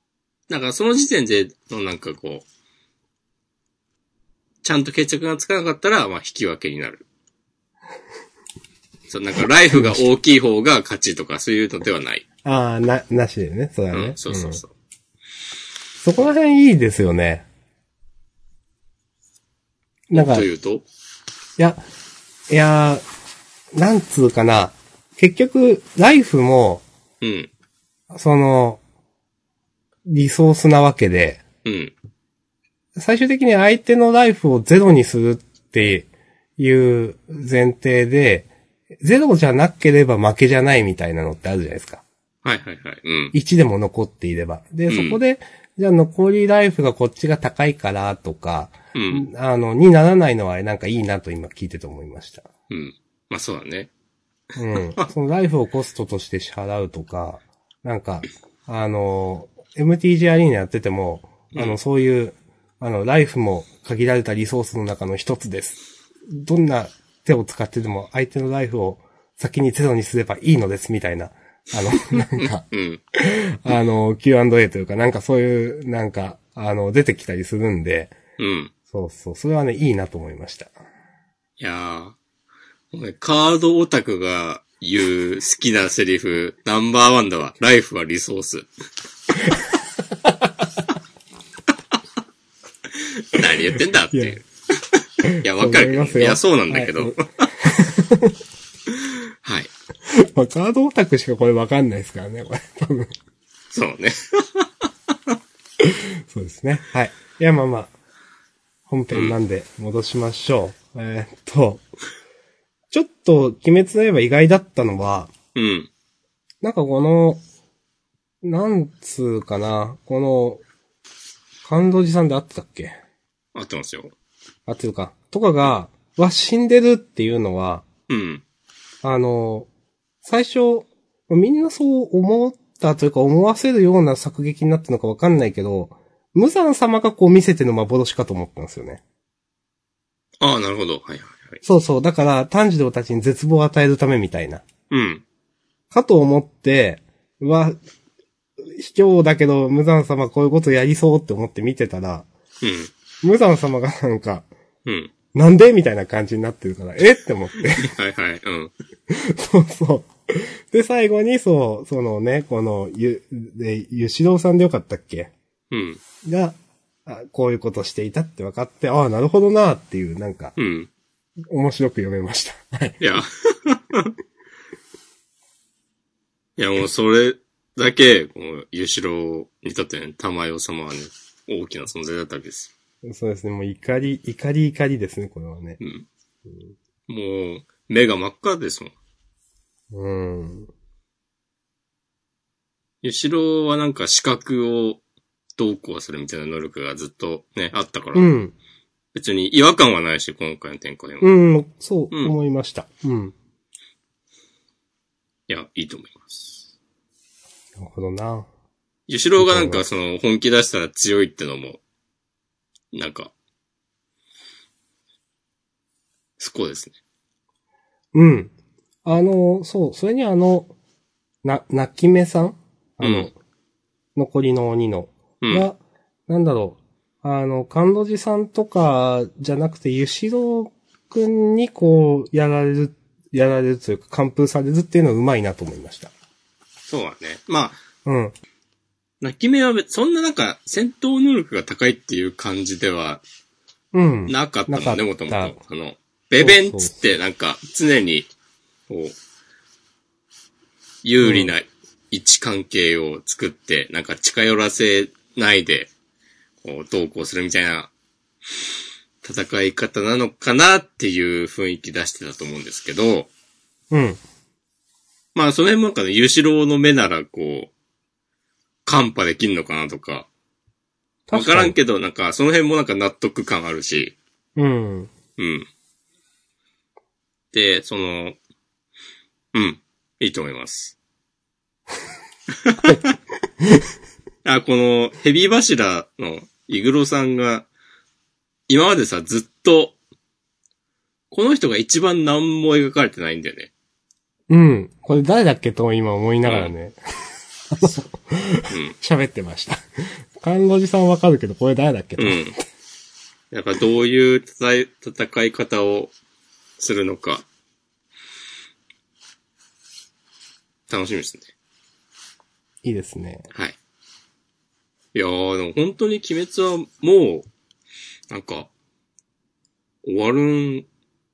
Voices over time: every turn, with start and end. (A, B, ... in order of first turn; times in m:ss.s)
0:00.5-0:02.4 A
0:04.6-0:07.0 A
0:09.1-0:12.2 A
0:09.7-0:10.0 B
0:12.4-0:14.6 B
0:13.9-0:14.7 A
0:16.0-0:17.5 B
0:20.1-0:20.5 B
0:20.1-0:20.8 A
0:22.5-0:23.0 B
0:23.7-0:26.8 B
0:27.2-0:27.5 A
0:28.1-0:28.8 B
0:30.0-0:31.4 B
0:31.6-0:31.9 A
0:33.0-0:38.5 B
0:39.0-0:42.0 B
0:42.4-0:43.3 A
0:43.3-0:52.5 B
0:44.9-0:45.2 A
0:48.9-0:49.3 A
0:52.7-0:53.9 A
0:54.6-1:18.1 B
1:01.5-1:01.8 A
1:12.4-1:13.0 A
1:18.4-1:18.7 A
1:18.9-1:20.7 B
1:21.6-1:22.2 A
1:22.9-1:28.7 A
1:32.9-1:37.4 A
1:35.2-1:38.4 B
1:38.9-1:39.7 A
1:40.1-1:43.1 B
1:43.7-1:44.7 A
1:45.8-1:47.9 B
1:48.9-1:51.8 B
1:49.1-1:49.4 A
1:52.9-1:55.3 B
1:55.5-1:55.9 A
1:56.6-1:57.4 B
1:58.4-2:00.6 B
2:01.6-2:02.9 B
2:03.5-2:04.1 A
2:04.7-2:07.8 B
2:08.1-2:08.4 A
2:09.0-2:09.7 B
2:10.2-2:19.0 B
2:20.4-2:21.6 A
2:21.6-2:24.6 B
2:24.9-2:25.2 A
2:25.9-2:27.8 B
2:28.6-2:32.3 B
2:32.6-2:32.9 A
2:33.2-2:34.5 B
2:34.8-2:35.1 A
2:35.3-2:37.9 B
2:37.7-2:38.7 A
2:39.1-2:45.3 B
2:45.7-2:46.0 A
2:46.2-2:50.5 B
2:50.6-2:50.9 A
2:51.5-2:53.0 B
2:53.0-2:54.1 A
2:56.6-3:02.7 A
3:03.0-3:05.8 B
3:05.8-3:06.1 A
3:07.1-3:08.9 A
3:09.9-3:10.7 B
3:13.0-3:15.0 A
3:15.6-3:18.3 A
3:18.1-3:18.5 B
3:19.1-3:21.3 A
3:21.2-3:23.3 B
3:25.5-3:26.7 A
3:27.8-3:28.5 B
3:29.1-3:31.8 A
3:29.4-3:29.8 B
3:32.9-3:33.3 A
3:36.4-3:36.9 A
3:38.1-3:38.5 B
3:39.0-3:40.7 B
3:41.4-3:43.3 B
3:43.0-3:43.3 A
3:44.2-3:56.1 B
3:45.4-3:45.7 A
3:56.9-3:57.8 A
3:58.0-3:58.3 B
3:59.2-4:03.2 A
4:03.9-4:05.6 B
4:04.3-4:08.3 A
4:06.4-4:07.1 B
4:08.9-4:09.1 A
4:11.0-4:15.9 A
4:11.2-4:11.5 B
4:16.6-4:17.9 A
4:19.2-4:23.3 A
4:23.9-4:24.2 B
4:25.3-4:27.7 A
4:28.8-4:30.3 A
4:31.3-4:31.7 B
4:31.3-4:34.2 A
4:34.6-4:35.1 B
4:35.4-4:35.6 A
4:37.5-4:38.4 A
4:39.5-4:40.9 A
4:42.6-4:43.2 A
4:44.4-4:47.7 A
4:48.7-4:50.0 A
4:51.3-4:53.7 A
4:54.5-4:57.0 B
4:56.4-4:56.7 A
4:57.7-4:59.8 B
4:58.7-4:58.9 A
5:00.4-5:02.5 B
5:02.2-5:02.6 A
5:03.5-5:06.1 A
5:06.8-5:07.4 A
5:10.9-5:11.5 A
5:12.8-5:13.5 B
5:15.1-5:17.5 A
5:18.3-5:18.7 A
5:20.0-5:20.9 A